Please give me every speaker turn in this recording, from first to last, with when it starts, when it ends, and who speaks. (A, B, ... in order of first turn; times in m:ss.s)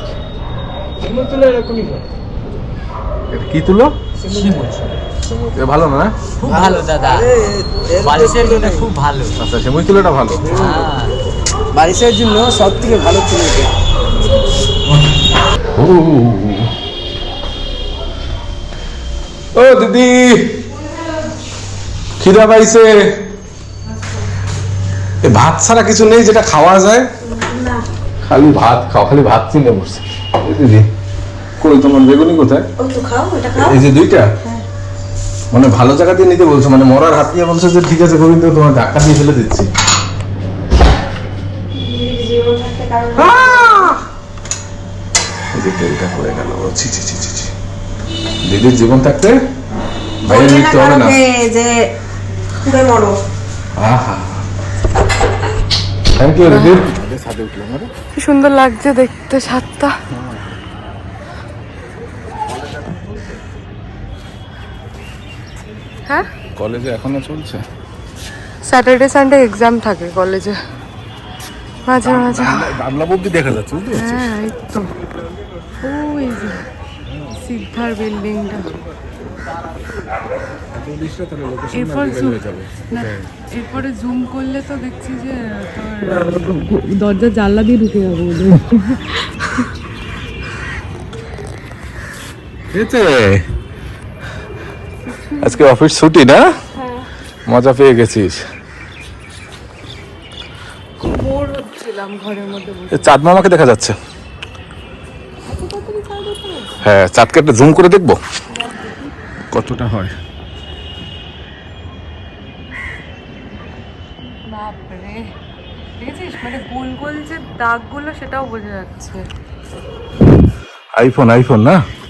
0:01.0-0:02.0 A
0:03.3-0:03.9 B
0:04.2-0:05.0 C
0:04.2-0:04.6 A
0:05.5-0:06.1 B
0:06.4-0:09.3 C
0:06.5-0:08.9 A
0:09.4-0:10.6 B
0:10.4-0:10.9 A
0:10.5-0:11.2 C
0:11.7-0:13.7 A
0:15.8-0:16.7 B
0:19.5-0:20.4 B
0:22.2-0:22.9 B
0:25.2-0:27.1 B
0:27.4-0:27.8 D
0:28.2-0:30.8 B
0:31.6-0:32.6 B
0:32.8-0:33.8 D
0:33.5-0:34.2 B
0:35.5-0:39.7 B
0:41.8-0:43.8 D
0:43.2-0:44.0 B
0:45.5-0:47.5 B
0:48.4-0:49.4 B
0:50.2-0:51.2 B
0:50.3-0:51.7 D
0:52.6-0:53.1 D
0:53.8-0:54.4 B
0:56.2-0:57.9 B
0:56.5-0:56.8 E
0:58.1-0:59.9 E
1:00.1-1:00.5 B
1:02.5-1:03.2 B
1:06.6-1:07.6 B
1:08.6-1:10.6 E
1:11.8-1:12.7 E
1:12.0-1:14.3 B
1:13.9-1:14.8 E
1:15.8-1:16.6 E
1:17.4-1:18.8 E
1:20.7-1:23.3 B
1:21.7-1:29.7 E
1:32.7-1:33.4 B
1:35.0-1:35.7 E
1:35.4-1:36.5 B
1:36.7-1:37.1 E
1:37.5-1:38.4 B
1:41.0-1:43.2 E
1:42.9-1:43.9 B
1:45.5-1:46.8 E
1:46.8-1:48.2 B
1:48.5-1:49.1 E
1:49.5-1:50.1 B
1:54.5-1:55.2 E
1:56.0-1:59.2 E
2:01.0-2:01.8 B